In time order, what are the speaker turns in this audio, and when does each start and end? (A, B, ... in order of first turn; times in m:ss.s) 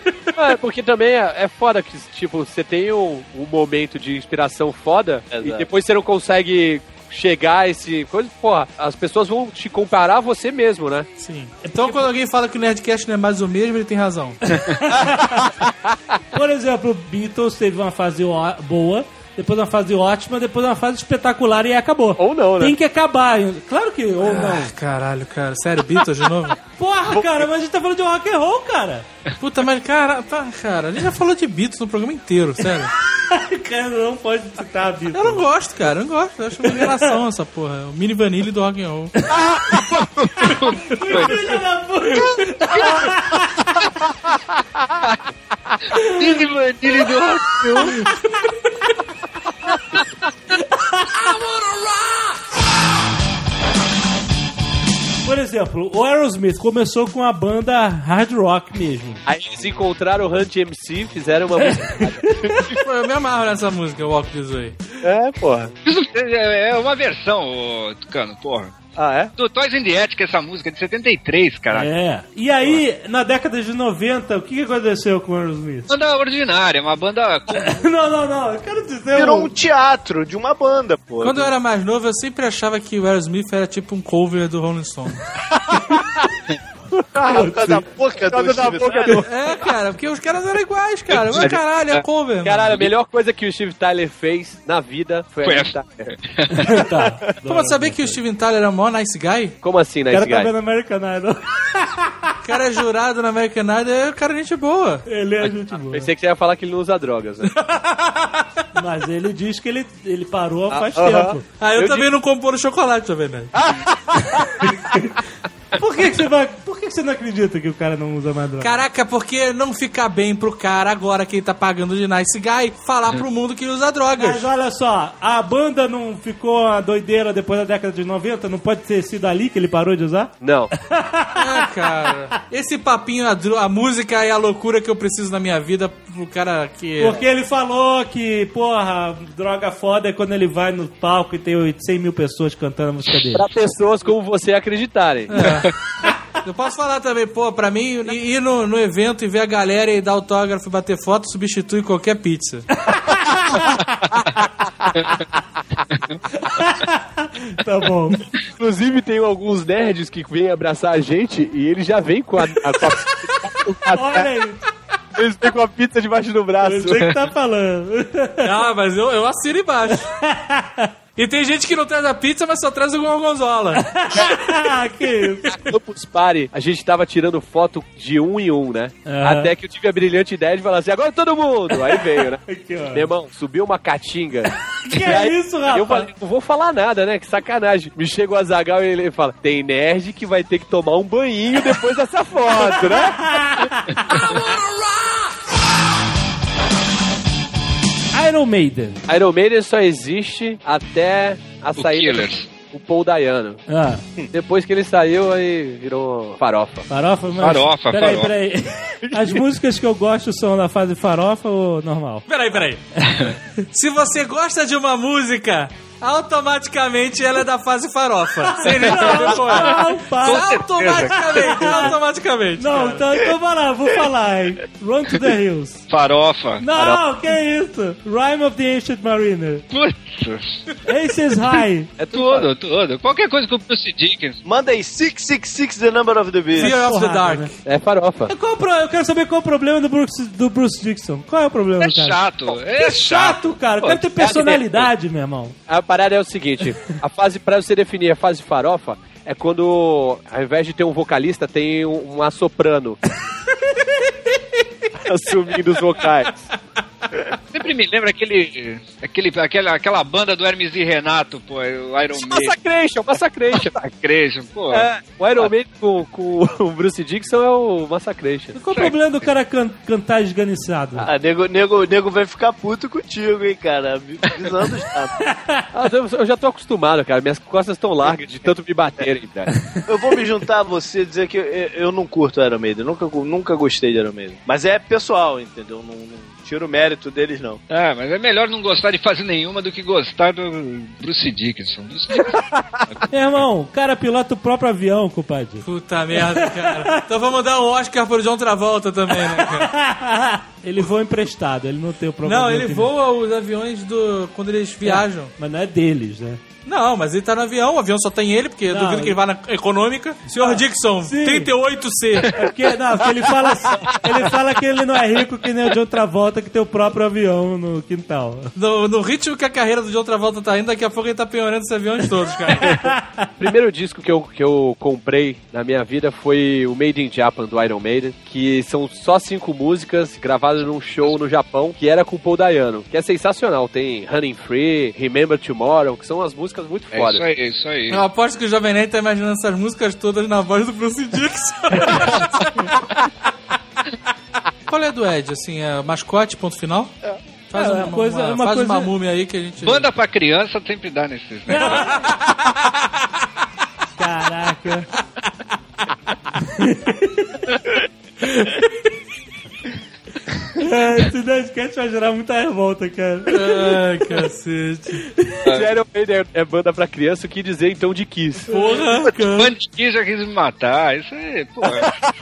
0:00.4-0:11.1 A
0:05.3-0:05.7 B
0:11.2-0:14.4 C
0:11.6-0:12.0 D
0:14.8-0:15.5 D
0:15.6-0:16.0 A
0:16.3-0:24.7 D
0:22.2-0:22.8 A
0:24.2-0:26.6 C
0:26.6-0:29.0 D
0:27.1-0:27.4 A
0:29.4-0:32.9 C
0:33.2-0:35.5 D
0:35.1-0:39.1 C
0:36.6-0:37.2 D
0:39.8-0:41.6 E
0:40.5-0:43.8 D
0:42.7-0:43.0 E
0:45.9-0:47.1 D
0:46.0-0:48.0 E
0:47.6-0:48.1 D
0:50.6-0:51.4 D
0:55.2-0:59.2 D
0:59.2-1:02.8 A
1:01.6-1:02.7 D
1:02.8-1:04.8 C
1:05.0-1:05.7 A
1:05.8-1:08.8 E
1:09.0-1:09.3 A
1:09.4-1:11.9 E
1:11.7-1:15.9 D
1:15.9-1:17.8 E
1:17.5-1:19.5 D
1:19.1-1:21.5 B
1:21.2-1:25.2 C
1:27.2-1:27.8 D
1:27.2-1:29.2 B
1:27.3-1:29.3 A
1:29.2-1:32.9 C
1:31.2-1:31.6 A
1:31.3-1:32.0 E
1:32.4-1:36.1 A
1:35.4-1:36.8 E
1:36.6-1:38.2 D
1:37.4-1:39.6 C
1:39.6-1:40.5 A
1:40.1-1:42.4 D
1:42.4-1:45.0 C
1:45.0-1:46.1 D
1:45.8-1:47.5 A
1:47.6-1:48.4 C
1:48.7-1:51.4 D
1:50.7-1:52.1 A
1:51.5-1:53.5 C
1:53.6-1:54.6 A
1:54.6-1:55.1 D
1:55.7-1:58.8 D
1:58.6-2:04.5 C
2:04.1-2:12.0 D
2:10.4-2:10.7 A
2:11.4-2:17.2 C
2:17.0-2:23.5 D
2:23.3-2:25.6 A
2:25.3-2:25.7 C
2:26.4-2:32.7 C
2:32.9-2:33.8 D
2:36.4-2:38.2 D
2:38.5-2:44.3 A
2:43.9-2:44.6 D
2:45.2-2:47.2 A
2:46.6-2:48.7 D
2:48.4-2:50.1 C
2:49.9-2:50.9 D
2:51.2-2:53.8 C
2:53.7-2:55.7 D
2:55.5-3:02.4 A
2:59.0-2:59.5 D
3:01.8-3:03.1 D
3:02.9-3:13.6 A
3:04.9-3:06.1 D
3:12.6-3:14.5 D
3:18.1-3:19.0 D
3:19.1-3:23.6 A
3:21.8-3:22.5 E
3:23.7-3:24.0 D
3:24.3-3:26.9 A
3:26.9-3:32.6 D
3:27.4-3:28.3 E
3:29.1-3:29.4 A
3:32.3-3:32.8 C
3:33.7-3:43.0 C
3:38.4-3:42.0 D
3:38.9-3:41.9 E
3:42.6-3:45.8 D
3:45.9-3:46.6 E
3:46.6-3:49.6 D
3:46.7-3:47.0 A
3:49.7-3:50.6 E
3:50.8-3:51.9 D
3:52.0-3:52.5 A
3:52.1-3:54.4 E
3:54.4-3:56.7 B
3:56.6-3:57.6 C
3:56.6-3:57.5 D
3:57.6-3:58.3 A
3:58.3-4:05.6 D
4:01.8-4:04.0 E
4:04.1-4:04.9 A
4:05.7-4:13.0 A
4:15.0-4:16.4 A
4:17.5-4:22.6 E
4:22.1-4:23.7 A
4:23.5-4:25.5 E
4:24.7-4:28.6 A
4:28.5-4:31.0 D
4:28.7-4:29.3 E
4:31.0-4:35.1 B
4:35.2-4:35.7 D
4:35.7-4:39.5 A
4:39.9-4:47.6 B
4:47.7-4:53.1 E
4:53.1-4:57.0 D
4:55.6-4:59.7 C
4:59.1-5:02.9 D
5:02.2-5:05.3 C
5:04.8-5:06.4 D
5:06.6-5:12.4 C
5:08.7-5:09.2 D
5:10.3-5:11.5 D
5:12.3-5:18.5 D
5:18.5-5:22.9 C
5:22.7-5:23.3 D
5:23.4-5:37.2 A
5:36.9-5:38.0 E
5:37.9-5:42.7 C
5:44.7-5:46.9 C
5:47.5-5:49.9 C
5:47.5-5:48.9 D
5:49.6-5:52.0 E
5:51.5-5:52.2 D
5:51.6-5:53.0 C
5:54.0-5:54.9 D
5:56.4-5:57.4 D
6:00.5-6:04.3 D
6:03.3-6:05.0 C
6:05.0-6:05.4 D
6:05.4-6:05.7 E
6:05.5-6:08.5 A
6:08.5-6:09.5 C
6:08.5-6:08.9 D
6:09.2-6:12.0 E